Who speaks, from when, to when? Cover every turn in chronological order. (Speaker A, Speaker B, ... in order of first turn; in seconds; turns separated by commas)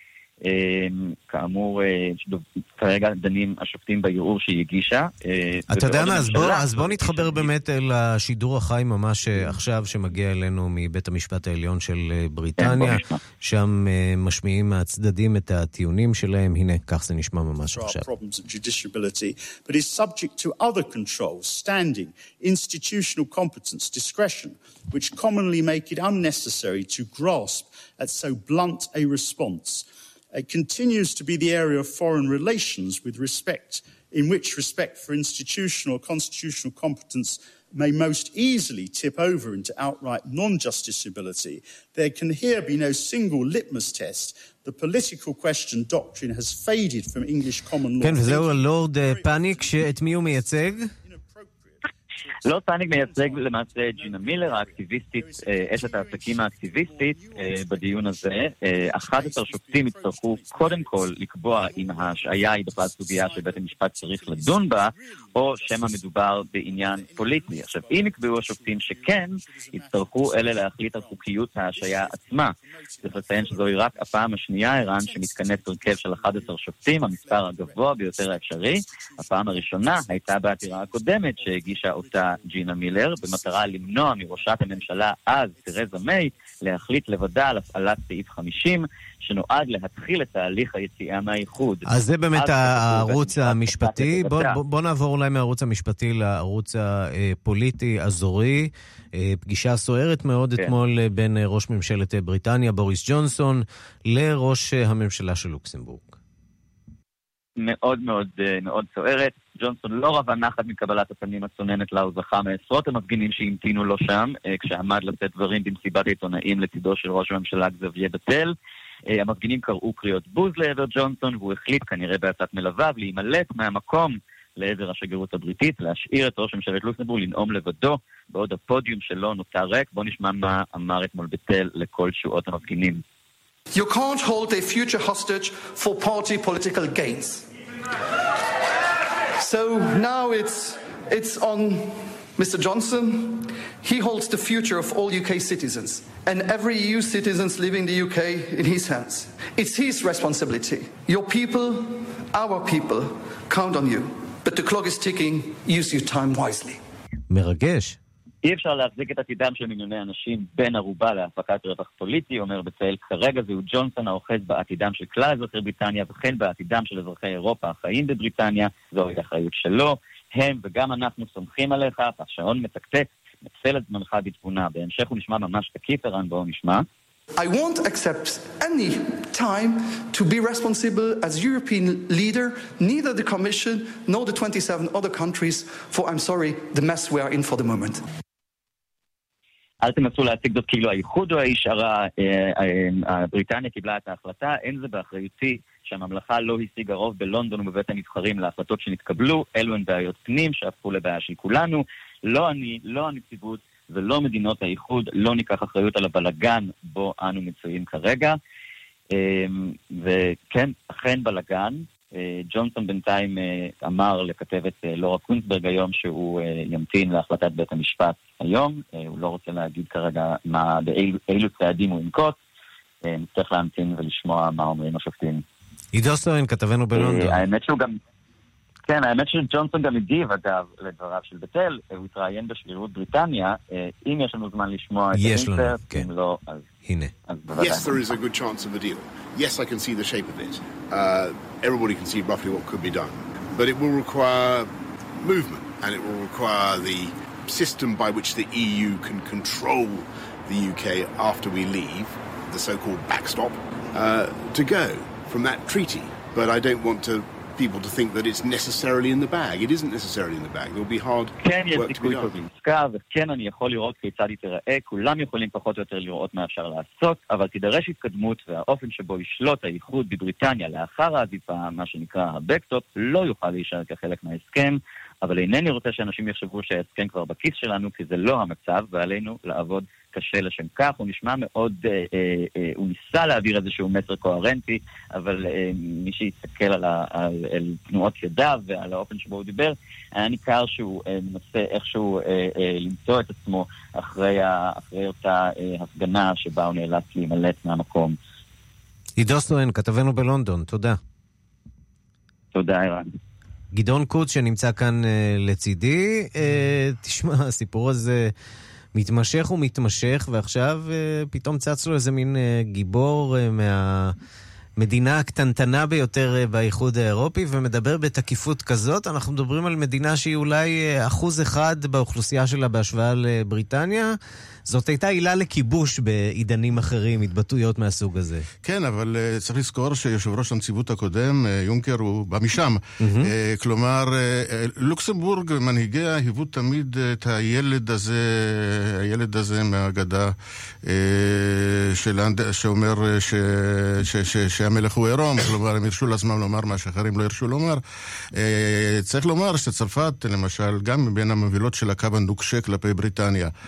Speaker A: 0.4-7.5, Speaker B: 5.7-18.0, Speaker A: 12.6-13.2, Speaker C: 17.6-86.9, Speaker B: 48.0-50.9, Speaker A: 52.5-94.5, Speaker B: 91.9-106.2, Speaker A: 107.6-118.5, Speaker A: 119.1-133.0, Speaker D: 133.7-137.5, Speaker D: 139.3-156.8, Speaker B: 157.3-158.0, Speaker A: 158.4-176.8, Speaker D: 177.4-188.0, Speaker A: 189.8-208.4, Speaker A: 209.1-222.4, Speaker A: 223.0-225.4, Speaker B: 225.9-227.4, Speaker A: 226.9-228.0, Speaker A: 228.9-236.6, Speaker B: 235.1-236.1, Speaker B: 236.8-237.1, Speaker A: 237.3-237.9, Speaker E: 237.6-244.7, Speaker E: 245.2-262.3, Speaker A: 261.4-298.2, Speaker B: 299.2-301.0, Speaker A: 302.5-303.1, Speaker B: 303.7-308.3, Speaker B: 308.9-314.1, Speaker B: 314.8-324.1, Speaker B: 324.7-328.4, Speaker F: 328.6-353.5, Speaker B: 333.0-333.3